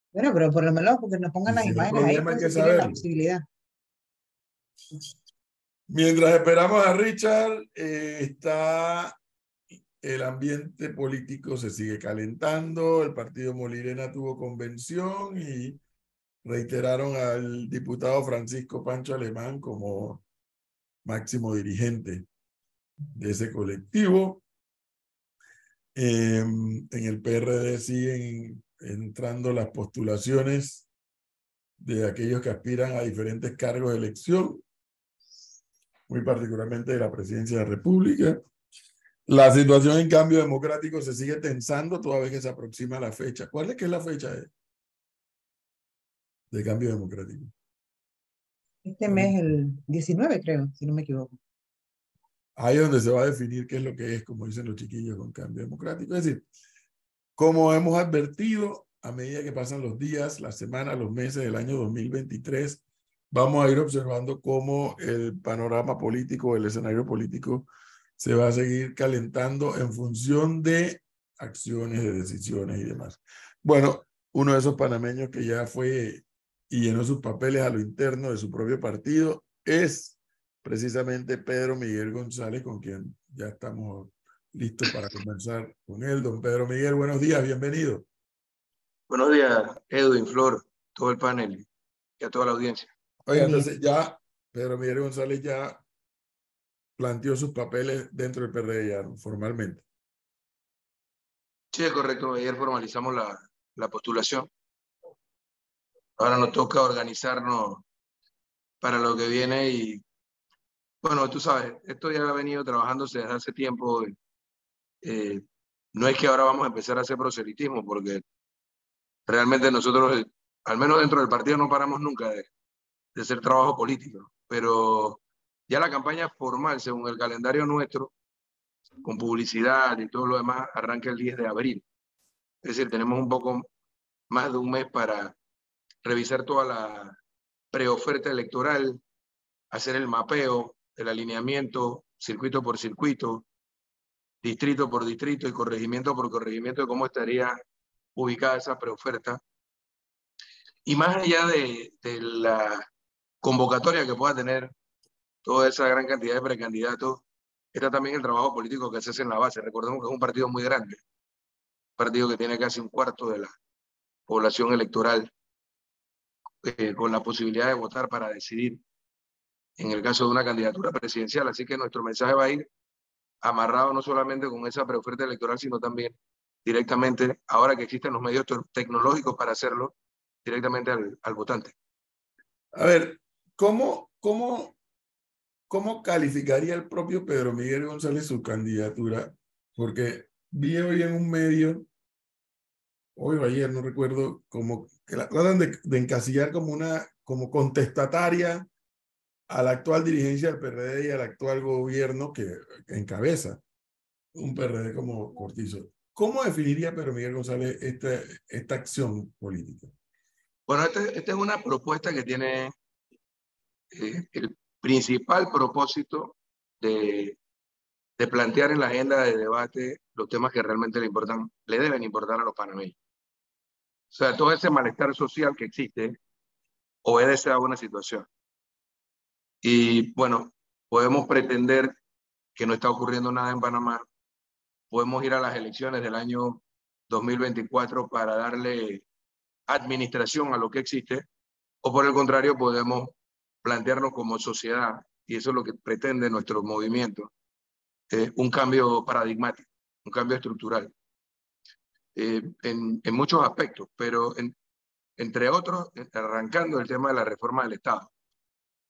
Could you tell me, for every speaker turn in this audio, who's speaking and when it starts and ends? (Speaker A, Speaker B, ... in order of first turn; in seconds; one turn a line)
Speaker A: 0.1-3.4
Speaker B: 1.5-3.0
Speaker B: 5.9-9.2
Speaker B: 10.0-15.8
Speaker B: 16.4-20.2
Speaker B: 21.0-22.2
Speaker B: 23.1-24.4
Speaker B: 25.9-30.9
Speaker B: 31.8-34.6
Speaker B: 36.1-38.4
Speaker B: 39.3-44.5
Speaker B: 46.5-47.5
Speaker A: 48.9-51.4
Speaker B: 49.1-49.3
Speaker B: 52.6-56.5
Speaker B: 57.4-88.0
Speaker C: 89.1-91.7
Speaker C: 92.2-92.9
Speaker B: 93.2-95.8
Speaker A: 93.3-93.7
Speaker B: 97.0-99.8
Speaker C: 101.7-104.5
Speaker C: 106.2-107.8
Speaker C: 108.8-110.0
Speaker C: 111.0-114.2
Speaker C: 115.0-115.4
Speaker C: 115.9-118.2
Speaker C: 119.3-122.5
Speaker C: 123.2-128.1
Speaker C: 129.0-131.8
Speaker C: 132.6-133.7
Speaker C: 134.3-135.3
Speaker C: 136.1-137.2
Speaker C: 137.7-139.0
Speaker C: 139.7-143.4
Speaker C: 144.4-147.6
Speaker C: 148.2-149.4
Speaker C: 150.9-152.9
Speaker C: 153.4-154.7
Speaker C: 155.4-157.2
Speaker C: 157.7-161.0
Speaker C: 162.0-163.5
Speaker C: 164.3-165.3
Speaker C: 166.6-168.8
Speaker C: 169.8-172.7
Speaker C: 173.4-176.1
Speaker C: 176.7-179.9
Speaker C: 180.4-181.7
Speaker B: 182.8-184.8
Speaker B: 185.7-191.8
Speaker B: 193.2-198.7
Speaker B: 199.5-203.6
Speaker B: 204.3-209.9
Speaker C: 210.7-212.7
Speaker C: 213.9-217.4
Speaker C: 218.2-222.9
Speaker C: 224.1-226.2
Speaker C: 227.1-228.3
Speaker C: 229.6-231.9
Speaker C: 232.6-234.0
Speaker C: 234.9-239.0
Speaker C: 239.7-241.2
Speaker C: 241.8-247.3
Speaker C: 248.1-250.9
Speaker C: 252.2-254.5
Speaker C: 255.2-258.1